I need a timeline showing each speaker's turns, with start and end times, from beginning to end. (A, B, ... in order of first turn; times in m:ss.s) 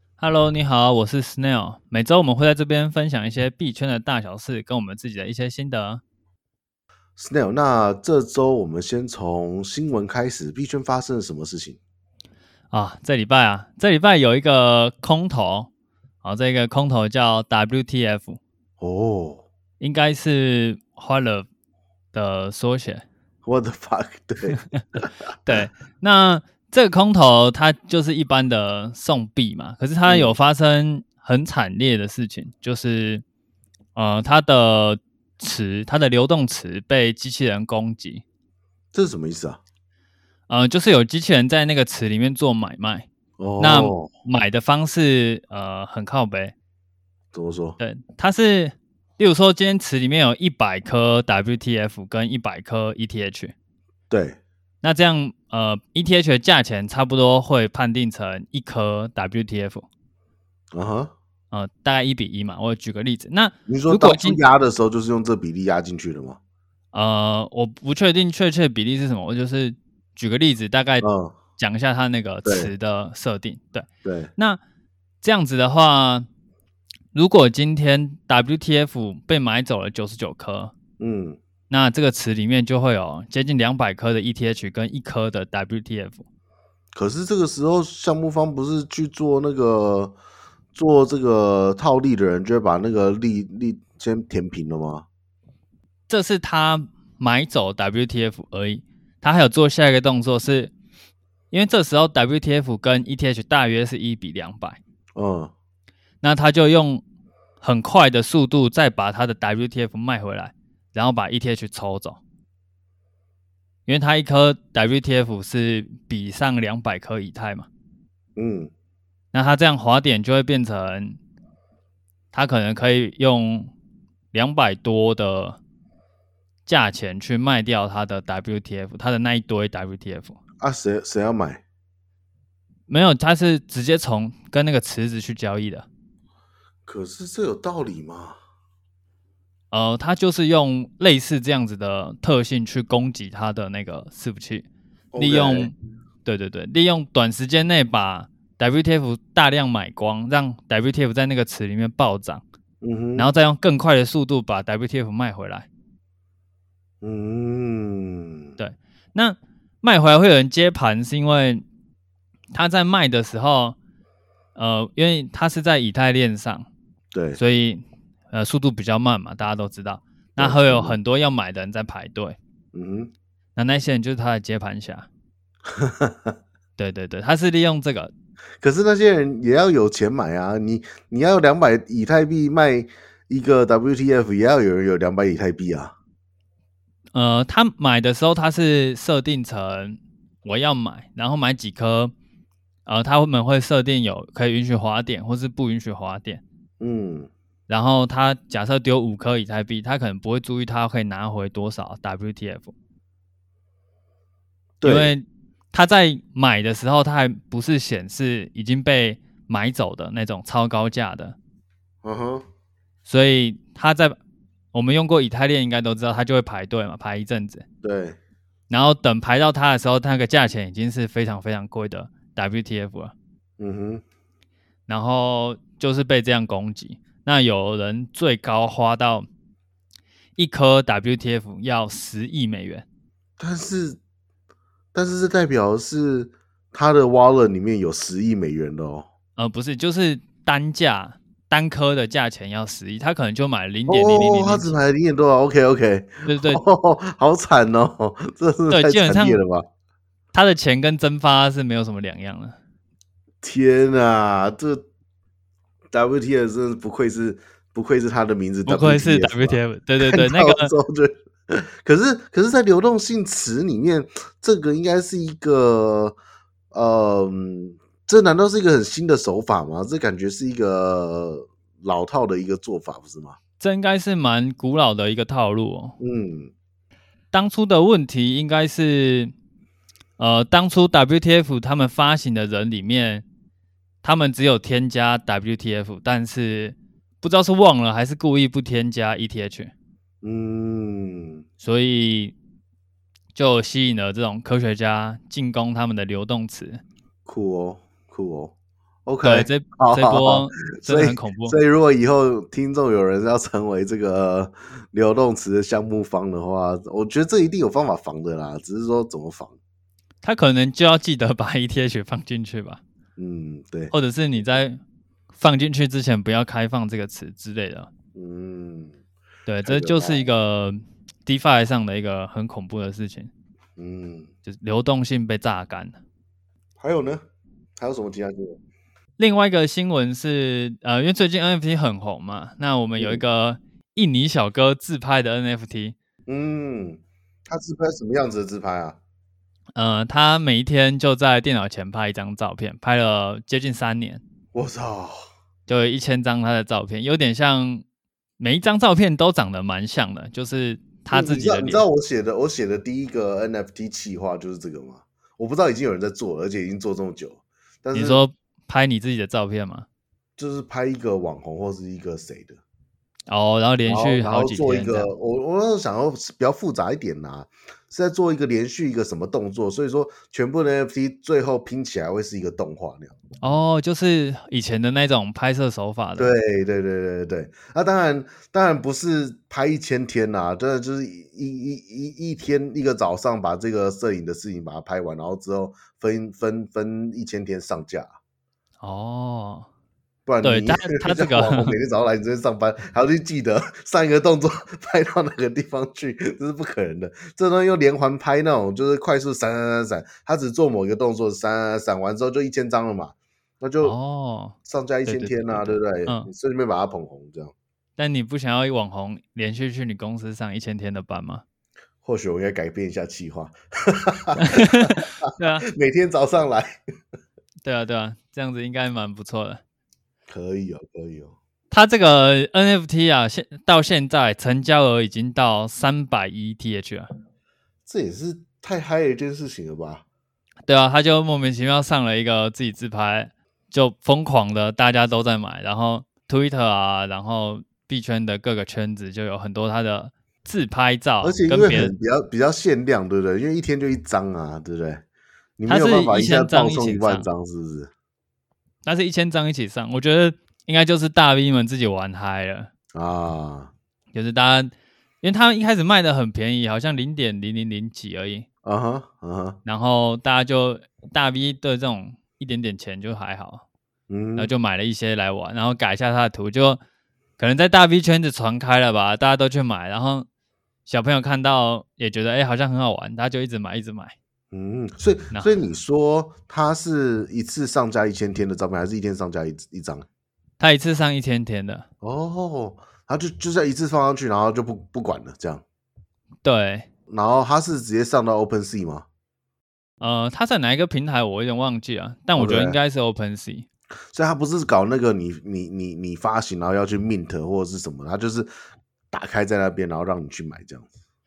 0:00.2-0:06.0 A
0:07.2-0:11.8 B
0:12.7-0:15.7 A
0:16.2-0:18.4 A
0:18.8-0:19.4 B
0:19.8-0:21.5 A
0:22.1-0:23.0 A
0:23.4-0:25.1 B
0:24.6-0:33.2 A
0:30.0-0:30.3 B
0:33.9-0:38.2 A
0:38.9-0:39.6 B
0:40.5-0:43.1 A
0:43.4-0:44.1 B
0:43.6-0:46.5 A
0:47.3-0:47.8 B
0:47.8-0:53.5 A
0:54.1-0:54.4 B
0:54.8-0:59.9 A
1:00.7-1:01.1 B
1:01.5-1:04.4 A
1:03.7-1:06.4 B
1:06.9-1:11.1 A
1:11.0-1:11.4 B
1:11.6-1:14.6 A
1:12.4-1:12.7 B
1:14.0-1:14.3 B
1:15.2-1:16.3 A
1:17.1-1:20.7 A
1:21.0-1:21.4 B
1:21.7-1:26.2 A
1:26.9-1:30.2 B
1:30.7-1:35.0 B
1:36.1-1:40.7 A
1:41.5-1:44.8 A
1:45.1-1:45.5 B
1:46.2-1:47.0 A
1:47.6-1:52.2 A
1:53.8-1:57.7 A
1:58.4-1:58.7 B
1:59.3-2:01.2 A
2:02.3-2:03.7 A
2:04.3-2:05.6 A
2:06.7-2:10.4 A
2:10.6-2:11.6 B
2:12.9-2:15.9 A
2:16.8-2:18.4 B
2:19.7-2:25.7 A
2:25.1-2:25.7 B
2:26.2-2:32.4 A
2:32.8-2:33.3 B
2:33.2-2:35.7 A
2:37.0-2:38.5 B
2:38.6-2:41.6 A
2:42.5-2:43.8 A
2:44.6-2:46.7 A
2:47.1-2:47.4 B
2:47.4-2:52.4 A
2:50.4-2:51.0 B
2:52.7-2:53.1 B
2:53.6-2:55.1 A
2:55.8-2:56.3 B
2:56.8-2:58.1 A
2:58.6-3:05.9 B
3:07.1-3:12.1 A
3:12.8-3:16.4 A
3:16.8-3:17.3 B
3:17.7-3:22.7 A
3:24.8-3:25.1 B
3:24.8-3:31.4 A
3:32.0-3:32.4 B
3:33.0-3:34.2 A
3:34.7-3:37.6 A
3:37.8-3:38.2 B
3:38.7-3:43.1 A
3:43.6-3:44.0 B
3:44.9-3:49.3 A
3:50.4-3:52.8 A
3:53.4-3:54.0 B
3:54.9-3:59.1 B
3:59.4-4:04.7 A
4:03.9-4:09.6 B
4:06.3-4:06.6 A
4:08.7-4:09.4 A
4:10.3-4:12.6 A
4:13.4-4:14.8 B
4:15.9-4:26.2 B
4:18.6-4:20.7 A
4:26.7-4:33.4 B
4:33.6-4:36.0 A
4:36.0-4:36.5 B
4:37.3-4:39.3 A
4:40.2-4:43.2 A
4:44.0-4:49.7 A
4:50.2-4:51.4 B
4:51.6-4:52.3 A
4:53.3-4:56.8 A
4:57.2-4:58.5 B
4:59.1-5:09.6 B
4:59.2-5:01.6 A
5:10.2-5:12.8 A
5:13.2-5:13.9 B
5:13.9-5:14.8 A
5:15.3-5:17.9 A
5:18.1-5:19.0 B
5:19.4-5:23.3 A
5:19.6-5:20.3 B
5:23.8-5:24.3 B
5:24.4-5:26.0 A
5:26.8-5:27.2 B
5:27.8-5:28.6 B
5:29.2-5:36.0 A
5:33.0-5:33.2 B
5:36.3-5:39.0 B
5:39.7-5:44.2 A
5:44.5-5:45.2 B
5:45.7-5:47.8 A
5:48.4-5:51.8 A
5:51.1-5:58.2 B
5:57.9-5:59.9 A
6:00.4-6:02.6 B
6:03.3-6:05.1 A
6:03.9-6:13.1 B
6:13.4-6:16.4 A
6:16.2-6:28.1 B
6:28.8-6:29.7 A
6:30.2-6:43.9 B
6:30.4-6:31.7 A
6:43.8-6:46.3 A
6:44.6-6:47.5 B
6:48.0-6:51.4 A
6:52.0-6:55.0 B
6:54.4-6:55.6 A
6:55.7-6:56.8 B
6:57.6-6:59.6 A
7:00.3-7:01.3 B
7:01.7-7:07.1 A
7:07.9-7:10.0 B
7:10.6-7:21.9 A
7:21.2-7:25.0 B
7:25.6-7:27.9 B
7:25.7-7:27.3 A
7:28.8-7:32.7 A
7:32.9-7:33.7 B
7:34.1-7:38.5 A
7:38.6-7:39.6 B
7:39.6-7:43.6 A
7:44.1-7:44.5 B
7:44.4-7:46.8 A
7:47.4-7:50.3 A
7:50.8-7:54.1 A
7:54.5-8:00.0 B
7:55.3-7:55.6 A
8:00.6-8:01.9 A
8:02.0-8:05.6 B
8:06.4-8:06.9 A
8:07.1-8:09.0 B
8:10.0-8:13.7 A
8:12.4-8:12.8 B
8:14.1-8:18.5 B
8:19.1-8:20.9 B